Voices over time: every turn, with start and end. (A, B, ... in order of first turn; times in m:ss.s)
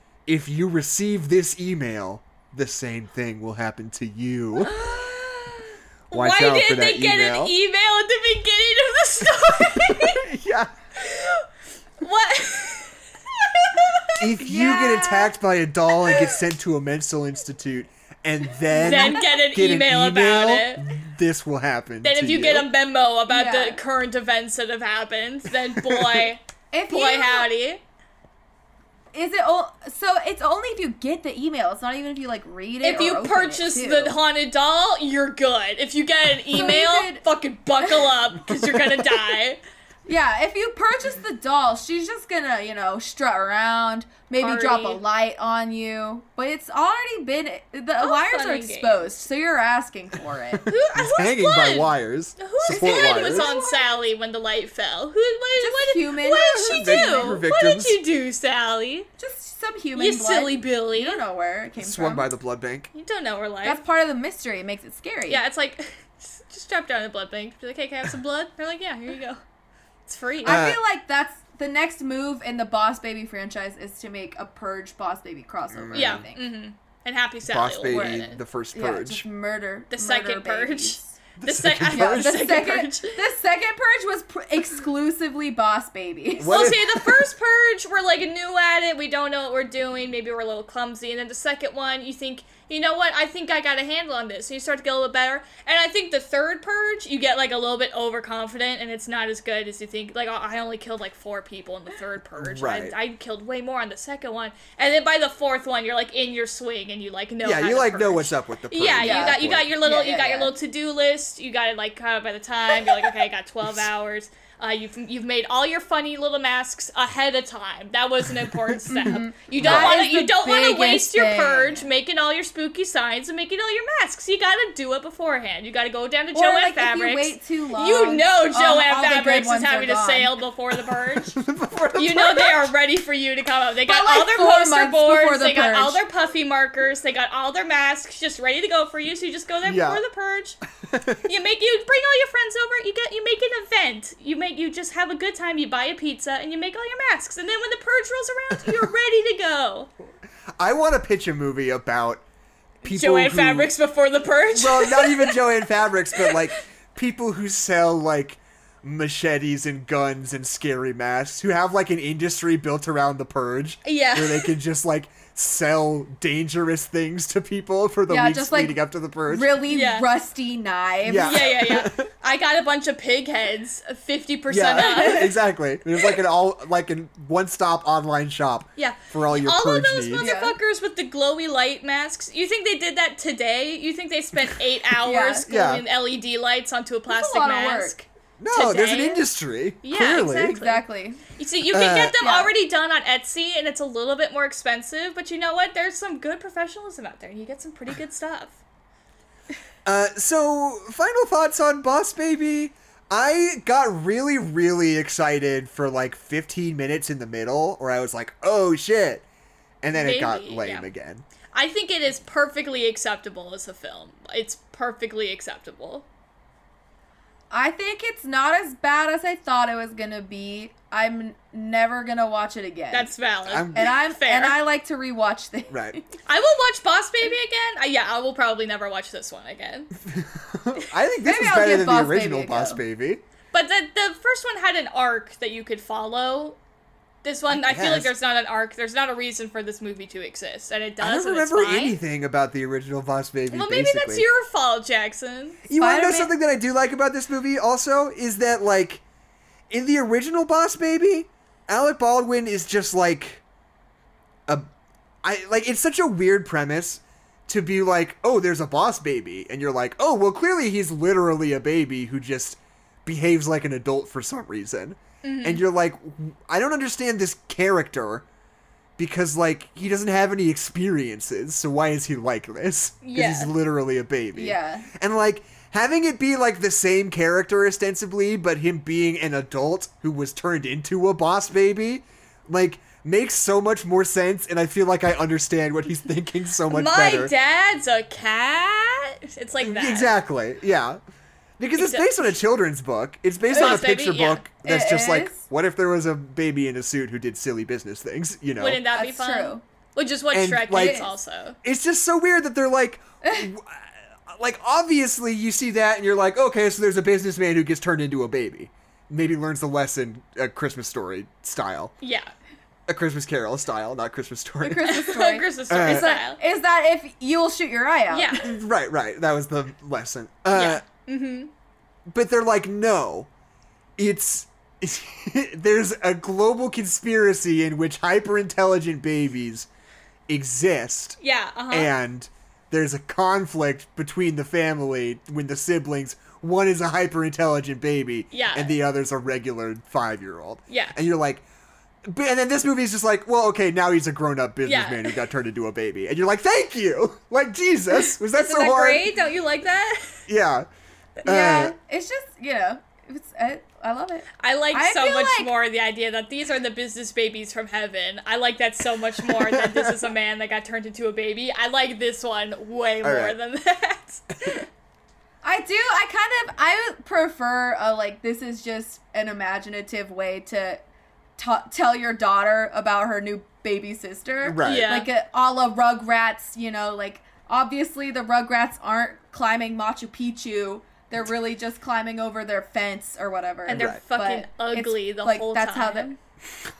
0:00.3-0:04.8 A
0:04.6-0:10.3 B
0:06.1-0:07.5 A
0:09.5-0:10.7 A
0:11.0-0:11.5 B
0:12.0-0:15.3 B
0:14.2-0:22.7 A
0:16.1-0:16.4 B
0:18.7-0:19.2 C
0:18.8-0:20.9 B
0:22.0-0:27.8 B
0:23.3-0:23.8 C
0:25.8-0:26.3 A
0:26.7-0:27.5 C
0:29.1-0:34.2 C
0:32.8-0:39.6 B
0:36.5-0:37.2 C
0:38.7-0:39.0 A
0:40.1-0:50.7 C
0:44.4-0:45.0 B
0:48.0-0:49.0 B
0:50.5-0:53.5 A
0:50.7-0:59.1 B
0:52.7-0:53.8 C
0:55.6-0:57.4 C
0:56.5-0:58.0 A
0:59.2-1:02.3 C
1:00.0-1:01.2 B
1:01.8-1:02.9 A
1:02.9-1:03.8 B
1:03.6-1:05.4 C
1:05.3-1:09.4 B
1:10.1-1:10.6 B
1:10.4-1:10.8 A
1:10.4-1:16.4 C
1:15.7-1:16.2 A
1:15.9-1:18.4 B
1:17.4-1:19.2 A
1:17.9-1:21.0 C
1:19.9-1:23.2 B
1:21.4-1:22.5 A
1:21.9-1:26.6 C
1:26.4-1:27.2 A
1:26.4-2:11.4 B
1:42.4-1:42.9 A
1:47.4-1:49.7 A
1:49.0-1:50.5 C
1:58.9-2:01.8 C
1:59.1-2:00.0 A
2:06.3-2:10.4 C
2:11.1-2:12.7 A
2:11.9-2:20.6 B
2:13.9-2:16.0 C
2:19.6-2:20.0 A
2:20.8-2:21.2 A
2:21.2-2:29.9 B
2:30.6-2:32.2 A
2:32.8-2:33.7 A
2:32.8-2:35.5 B
2:34.5-2:49.5 A
2:36.1-2:36.5 B
2:43.8-2:44.5 B
2:48.1-2:51.5 C
2:49.7-2:50.1 B
2:51.0-2:52.1 A
2:51.2-2:55.3 B
2:54.5-3:00.2 A
2:54.7-2:55.3 C
2:58.8-3:09.2 B
3:00.2-3:00.6 C
3:05.0-3:05.5 C
3:05.4-3:05.8 A
3:07.1-3:08.0 C
3:08.4-3:10.6 A
3:09.8-3:10.8 B
3:10.5-3:11.2 C
3:11.4-3:18.6 B
3:11.7-3:12.2 A
3:12.2-3:12.5 C
3:19.8-3:29.2 A
3:29.8-3:31.2 A
3:29.9-3:30.9 B
3:31.5-3:36.0 B
3:37.5-3:43.1 C
3:42.9-3:44.6 B
3:43.4-3:43.9 A
3:43.7-3:46.0 C
3:45.7-3:46.0 A
3:46.2-3:49.9 B
3:50.0-3:53.2 A
3:51.2-3:52.8 C
3:53.5-3:56.6 B
3:57.2-4:02.0 B
3:57.5-3:58.1 A
4:01.0-4:04.2 A
4:03.5-4:05.6 B
4:05.7-4:09.0 A
4:05.8-4:06.3 C
4:09.7-4:13.4 A
4:15.2-4:28.2 A
4:25.2-4:25.6 B
4:29.0-4:47.3 A
4:33.0-4:33.5 B
4:34.3-4:34.9 C
4:46.7-4:50.1 B
4:49.6-4:51.0 A
4:51.6-4:58.8 A
4:51.8-4:52.3 B
4:53.5-4:54.4 B
4:54.6-4:55.4 C
4:58.6-5:01.6 B
4:58.9-4:59.6 C
5:00.3-5:01.1 A
5:00.7-5:01.1 C
5:01.6-5:11.9 A
5:12.0-5:12.3 B
5:12.9-5:15.0 A
5:14.6-5:18.4 C
5:14.9-5:16.4 B
5:15.7-5:16.1 A
5:18.1-5:18.5 B
5:18.4-5:20.8 A
5:20.5-5:21.5 B
5:22.1-5:23.3 A
5:24.0-5:29.7 A
5:30.3-5:31.2 A
5:31.2-5:31.9 B
5:31.7-5:41.4 A
5:38.3-5:38.7 B
5:40.7-5:41.0 B
5:42.0-5:49.0 A
5:44.6-5:45.2 B
5:48.3-5:50.2 B
5:50.3-5:50.6 A
5:51.2-5:51.7 A
5:51.2-5:55.5 C
5:54.4-6:04.6 B
5:59.2-6:00.0 A
6:03.0-6:03.4 A
6:05.4-6:10.8 C
6:11.4-6:26.1 C
6:14.4-6:14.9 A
6:14.6-6:15.1 B
6:23.6-6:26.2 B
6:23.7-6:24.0 A